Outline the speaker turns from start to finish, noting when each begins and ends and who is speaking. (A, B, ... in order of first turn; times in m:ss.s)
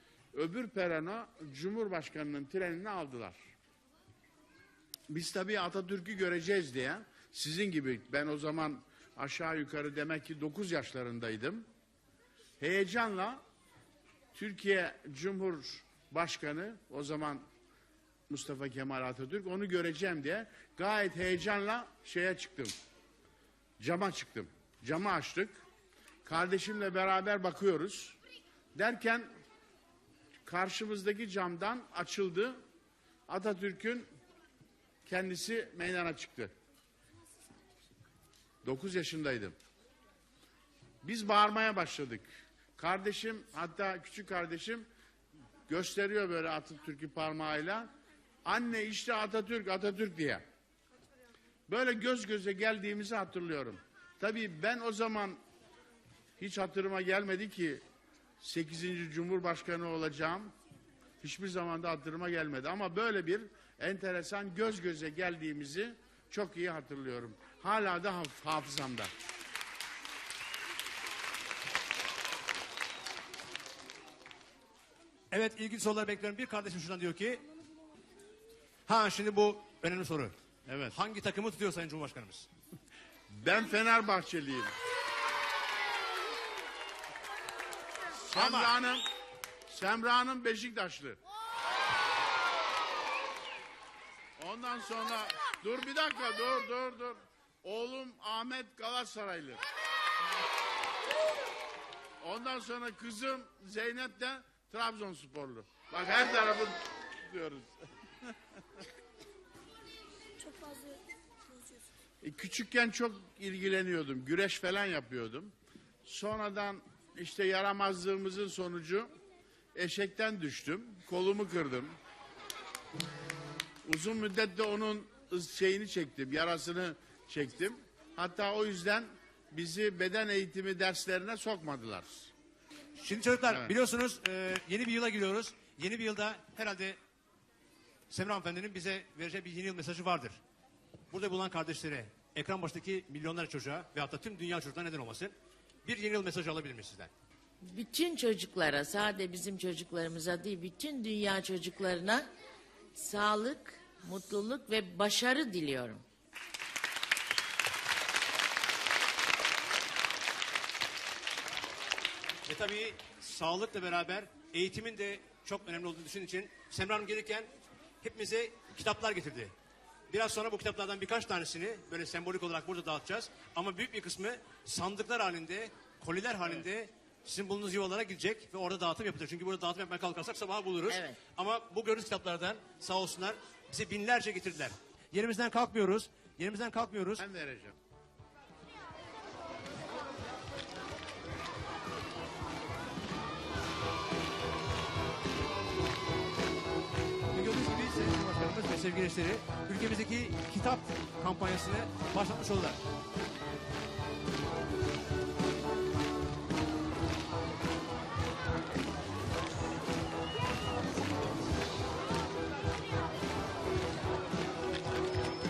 0:00.3-0:03.4 A
0:05.1-0:11.7 A
0:12.6-0:13.4 A
0:14.3-0:17.4 A
0:18.3-0:22.7 A
0:23.8-0:25.6 A
0:26.2-0:28.2 A
0:28.8-0:29.3 A
0:30.5-0:32.6 A
0:33.3-0:34.1 A
0:35.0-0:36.5 A
0:38.6-0:39.6 A
0:41.0-0:44.9 A
0:45.7-0:47.9 A
0:48.4-0:50.4 A
0:51.7-0:55.4 A
0:56.4-0:57.8 A
0:58.4-1:00.5 A
1:01.2-1:09.1 A
1:15.3-1:17.4 B
1:18.9-1:20.4 B
1:20.7-1:20.9 A
1:20.9-1:22.5 B
1:23.3-1:24.7 A
1:28.3-1:28.8 B
1:28.3-1:29.1 A
1:29.7-1:31.2 A
1:34.4-1:39.6 A
1:42.2-1:47.7 A
1:52.2-1:55.5 A
1:56.1-1:59.1 A
1:59.7-2:02.0 A
2:03.8-2:12.3 A
2:13.0-2:17.0 B
2:13.4-2:13.7 A
2:18.1-2:20.4 B
2:21.1-2:27.1 B
2:27.6-2:32.3 C
2:33.0-2:36.0 C
2:42.5-2:47.5 B
2:48.0-2:49.5 B
2:50.1-3:07.2 B
3:00.9-3:01.2 C
3:07.2-3:07.8 A
3:17.3-3:22.8 B